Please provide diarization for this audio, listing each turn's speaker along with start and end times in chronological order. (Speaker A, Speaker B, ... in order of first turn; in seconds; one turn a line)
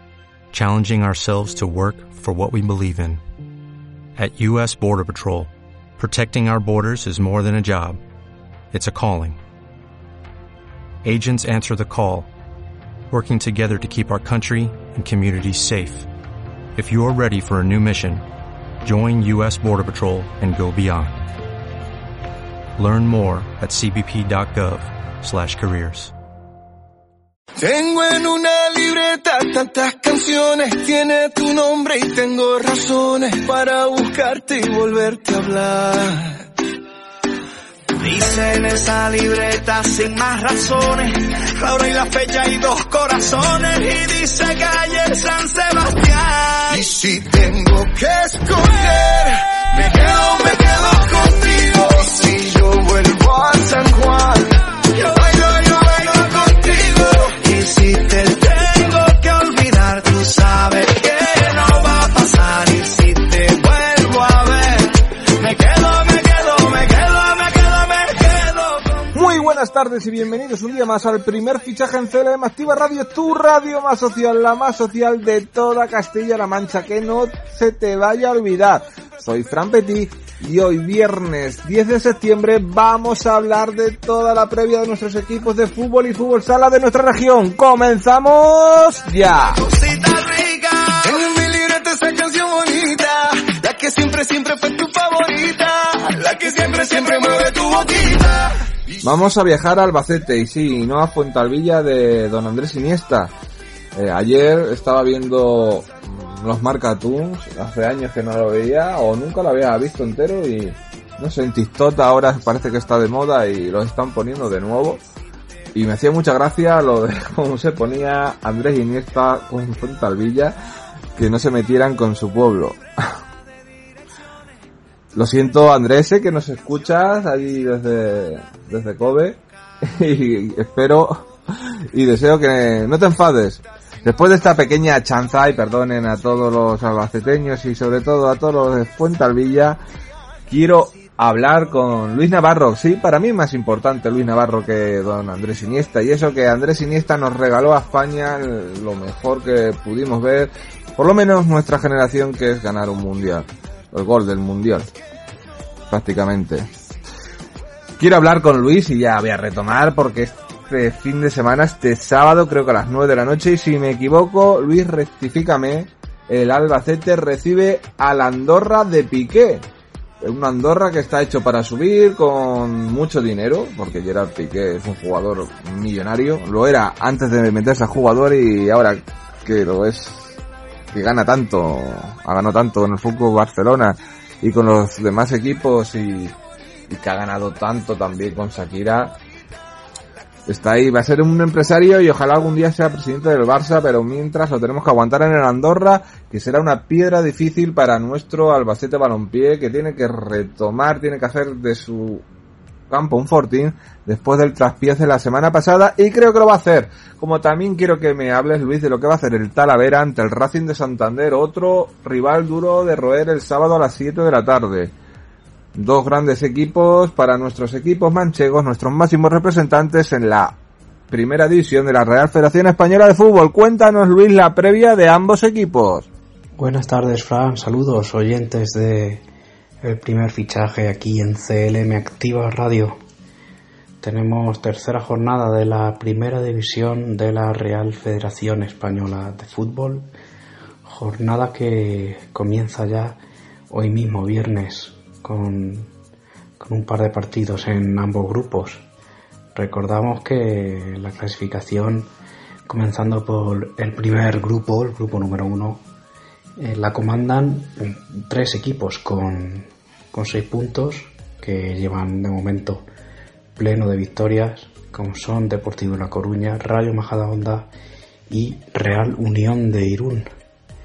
Speaker A: 0.5-3.2
Speaker A: 4.2-8.0
Speaker A: 8.7-9.4
Speaker A: 11.0-12.3
Speaker A: 13.1-16.1
Speaker A: 16.8-18.2
Speaker A: 18.8-21.3
Speaker A: 22.8-26.1
Speaker B: 27.6-36.5
Speaker C: 38.0-46.9
Speaker B: 46.7-54.5
Speaker C: 52.2-52.7
Speaker C: 55.0-56.6
Speaker B: 55.0-57.3
Speaker C: 57.4-69.1
Speaker D: 69.1-89.6
Speaker C: 89.7-91.2
Speaker B: 91.0-98.5
Speaker D: 99.0-103.3
Speaker D: 104.0-115.0
Speaker D: 115.8-120.5
Speaker D: 121.2-122.8
Speaker D: 125.1-131.3
Speaker D: 131.9-139.8
Speaker D: 140.5-154.9
Speaker D: 155.9-156.7
Speaker D: 158.0-169.6
Speaker D: 170.2-180.4
Speaker D: 180.9-186.4
Speaker D: 186.9-189.2
Speaker D: 190.5-202.2
Speaker D: 202.9-214.9
Speaker D: 215.7-220.6
Speaker D: 221.1-226.1
Speaker E: 226.6-229.2
Speaker E: 229.8-233.0
Speaker E: 234.0-240.1
Speaker E: 240.8-243.2
Speaker E: 243.7-245.9
Speaker E: 246.6-248.8
Speaker E: 249.5-252.1
Speaker E: 252.7-255.8
Speaker E: 256.6-262.9
Speaker E: 263.6-267.7
Speaker E: 268.3-270.3